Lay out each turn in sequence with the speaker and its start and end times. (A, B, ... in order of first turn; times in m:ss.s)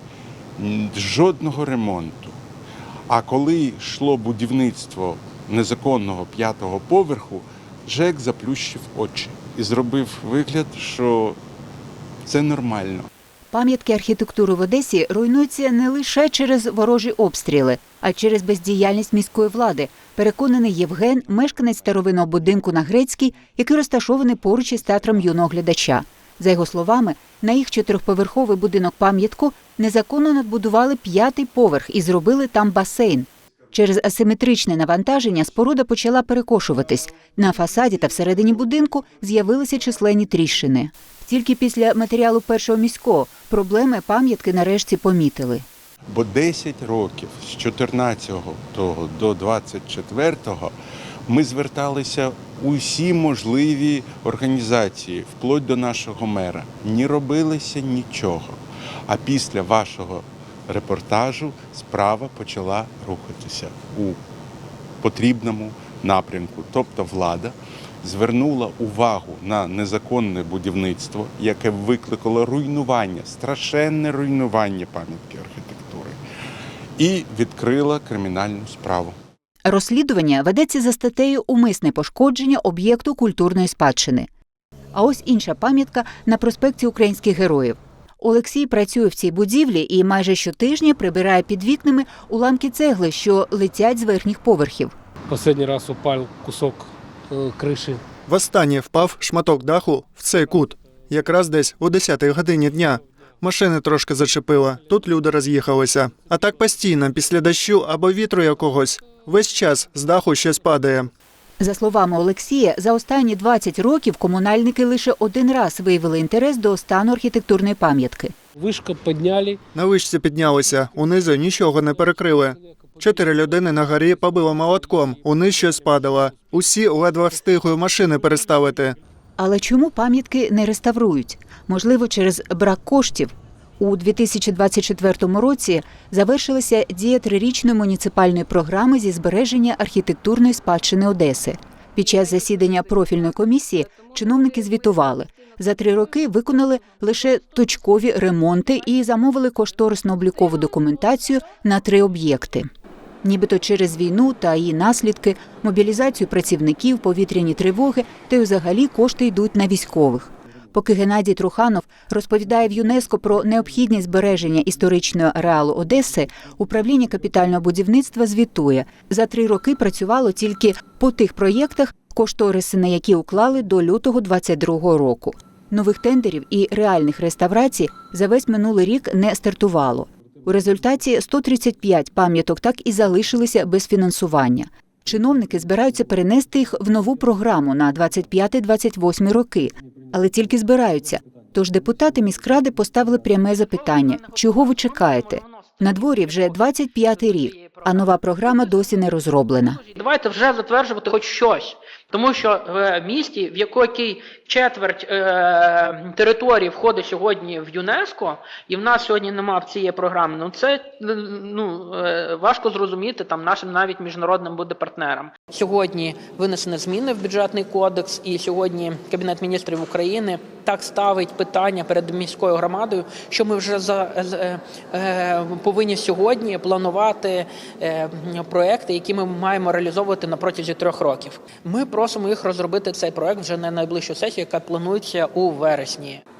0:00.6-0:02.4 A
0:03.1-0:11.4 A
0:12.2-0:13.1 A
0:13.5-0:45.6 B
0:46.1-0:50.7 A
0:51.3-1:04.2 A
1:05.0-1:16.2 A
1:17.0-1:19.2 A
1:19.6-1:24.3 B
1:24.9-1:34.9 B
1:35.3-1:38.0 C
1:38.3-1:51.1 D
1:51.6-1:58.3 B
1:58.6-1:59.6 C
1:59.7-2:09.0 D
2:00.4-2:08.9 C
2:09.4-2:32.7 B
2:33.2-3:19.8 B
3:13.6-3:56.2 E